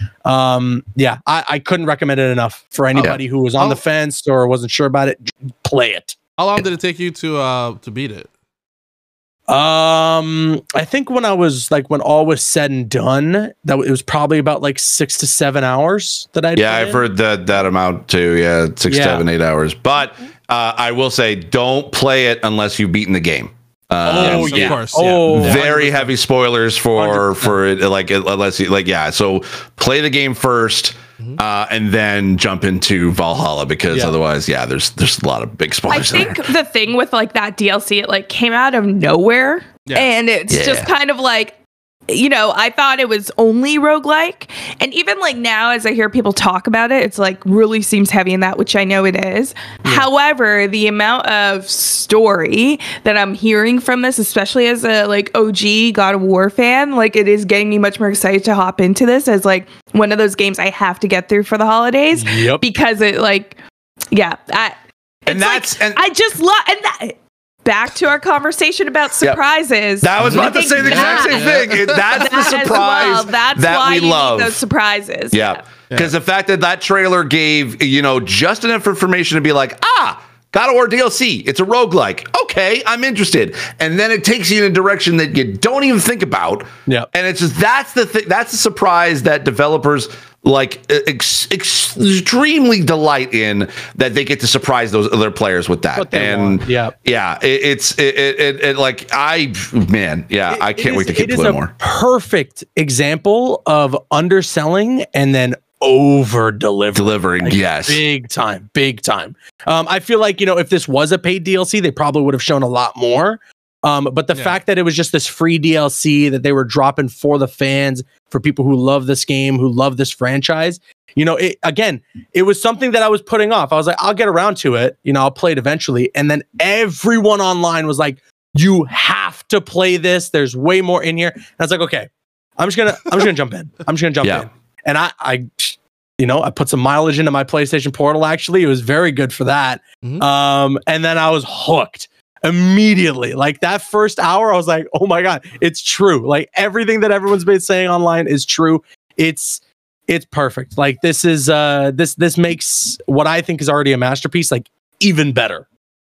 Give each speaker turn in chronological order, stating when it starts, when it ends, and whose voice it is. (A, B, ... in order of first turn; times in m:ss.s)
0:00.2-0:06.2 A
0:02.9-0:03.2 B
0:06.4-0:08.3 C
0:09.5-0:17.0 A
0:16.6-0:36.4 B
0:18.9-0:19.2 A
0:24.0-0:26.1 A
0:24.1-0:26.1 C
0:27.0-0:27.6 A
0:35.9-0:41.6 D
0:40.5-0:40.9 B
0:42.1-1:03.6 D
1:02.2-1:02.6 A
1:04.1-1:11.5 D
1:05.3-1:06.0 B
1:10.0-1:14.6 B
1:10.2-1:12.7 C
1:12.1-1:15.6 D
1:15.3-1:41.7 B
1:36.0-1:37.0 A
1:40.5-2:35.6 A
1:46.9-1:48.0 B
1:54.3-1:54.6 C
2:14.2-2:14.5 B